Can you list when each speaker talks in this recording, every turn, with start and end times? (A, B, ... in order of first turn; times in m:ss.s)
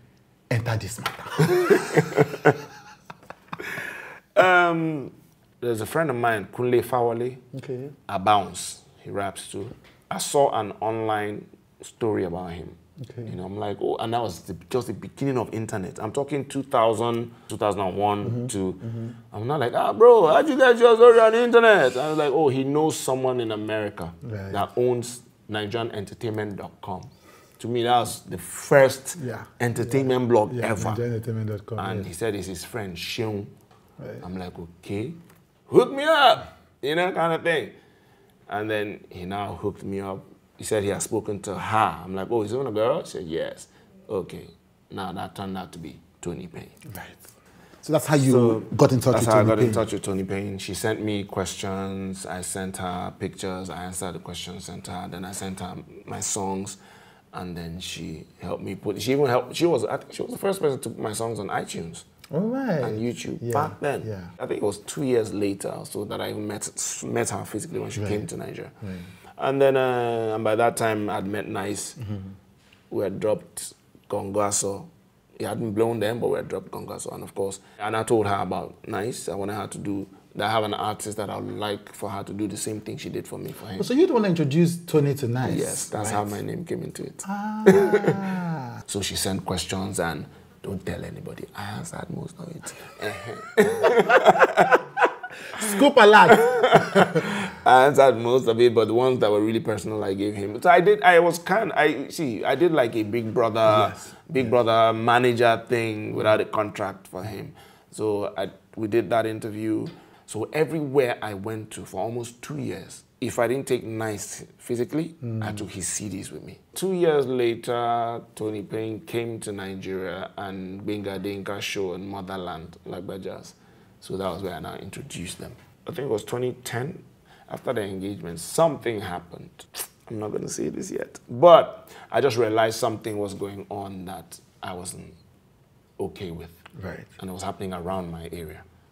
0:00.5-0:02.2 A
0:01.7-0:02.5 B
0:04.4-0:07.4 B
0:07.5-0:07.9 A
0:08.1-0:31.0 B
0:13.0-0:13.3 A
0:18.2-0:19.1 A
0:24.2-0:24.7 A
0:29.2-0:32.1 A
0:31.8-0:33.5 B
0:34.0-0:34.2 A
0:34.2-0:37.8 B
0:38.5-0:46.8 B
0:46.9-0:47.2 A
0:47.8-0:49.8 A
0:48.2-0:56.8 B
0:57.3-1:02.0 B
1:02.3-1:04.3 A
1:02.8-1:08.7 B
1:08.0-1:08.2 A
1:08.8-1:09.1 A
1:09.4-1:12.0 B
1:12.0-1:12.3 A
1:12.9-1:23.9 B
1:23.8-1:26.4 A
1:25.4-1:28.3 B
1:27.2-1:28.8 A
1:28.9-1:34.8 B
1:35.6-1:37.2 A
1:36.3-2:15.2 B
1:43.7-1:44.5 A
1:55.2-1:55.6 A
2:16.0-2:16.6 B
2:16.8-2:17.1 A
2:17.2-2:18.6 B